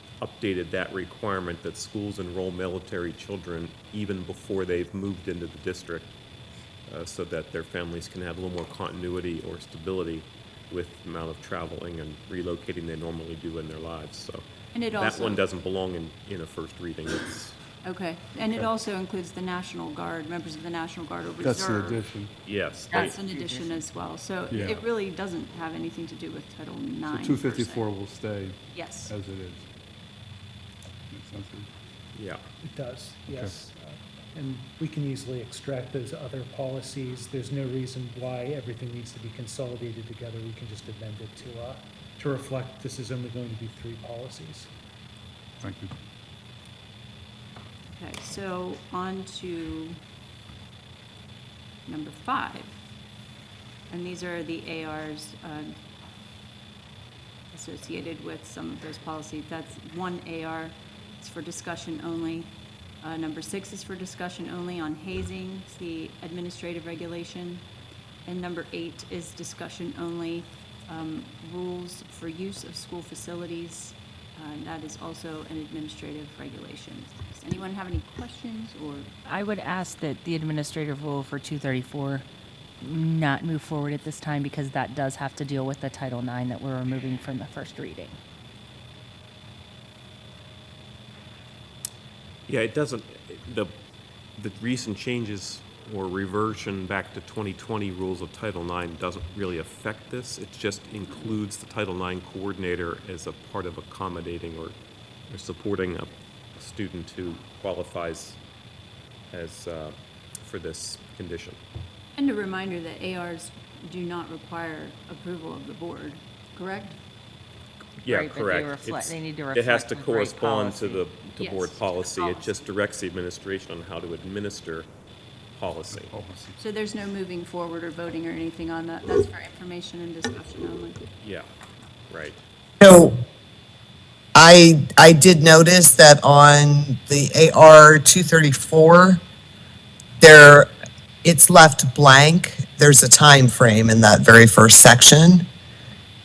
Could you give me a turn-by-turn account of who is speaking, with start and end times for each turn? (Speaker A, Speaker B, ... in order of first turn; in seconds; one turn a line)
Speaker A: 0.2-6.1
Speaker A: 6.9-17.6
Speaker B: 14.7-15.4
Speaker B: 17.8-22.0
Speaker C: 21.4-22.3
Speaker A: 22.4-23.2
Speaker D: 22.9-23.8
Speaker B: 22.9-27.8
Speaker C: 24.5-24.9
Speaker C: 27.1-29.7
Speaker B: 28.7-29.1
Speaker C: 31.1-31.7
Speaker A: 32.1-32.4
Speaker E: 32.6-44.7
Speaker C: 45.6-45.9
Speaker B: 47.9-50.0
Speaker B: 51.9-52.8
Speaker B: 53.9-55.7
Speaker B: 57.5-62.5
Speaker B: 63.0-67.6
Speaker B: 68.2-79.1
Speaker D: 79.2-82.2
Speaker D: 82.8-88.2
Speaker A: 92.5-93.7
Speaker A: 94.4-104.8
Speaker A: 105.3-108.4
Speaker A: 109.3-111.6
Speaker B: 112.2-117.0
Speaker A: 118.0-124.9
Speaker D: 118.0-121.0
Speaker B: 121.4-122.7
Speaker A: 125.5-126.1
Speaker C: 125.9-126.6
Speaker B: 126.6-131.0
Speaker A: 131.2-131.5
Speaker A: 132.1-132.4
Speaker F: 132.8-133.2
Speaker F: 134.3-139.2
Speaker F: 140.2-140.7
Speaker F: 141.2-145.5